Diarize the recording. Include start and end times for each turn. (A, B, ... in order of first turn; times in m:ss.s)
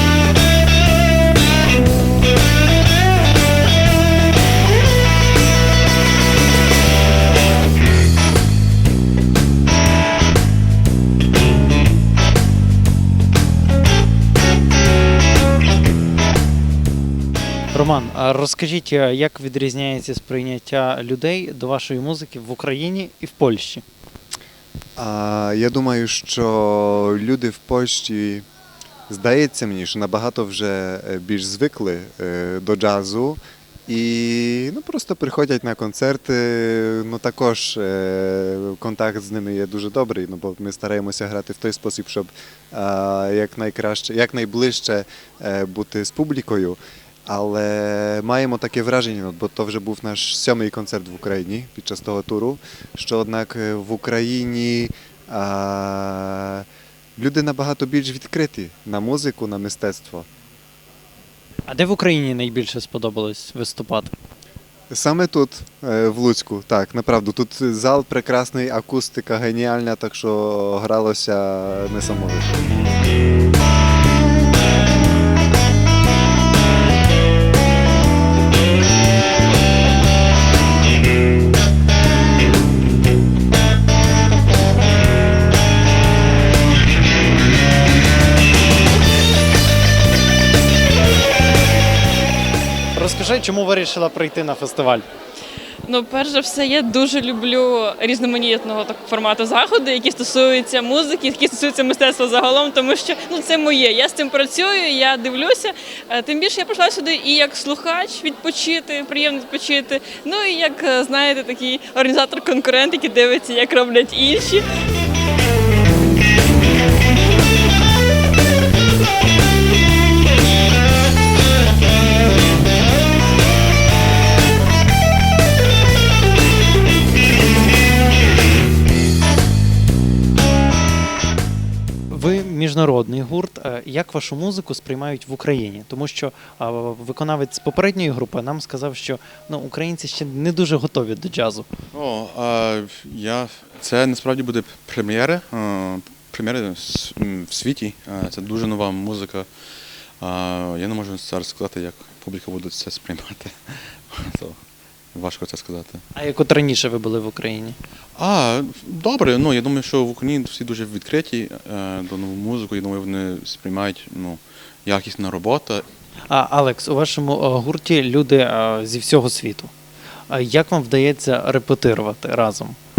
0:17.7-0:23.8 A
0:25.0-0:28.4 B
0:29.1-0:56.6 B
0:57.2-1:00.2 B
1:01.7-1:04.1 A
1:04.9-1:12.6 B
1:32.9-1:35.0 A
1:35.8-1:54.6 C
2:12.1-2:21.7 A
2:21.9-2:29.5 D
2:30.2-2:34.6 D
2:35.1-2:36.0 D
2:36.1-2:37.8 A
2:38.2-2:45.8 D
2:46.3-2:49.7 A
2:50.3-2:52.8 A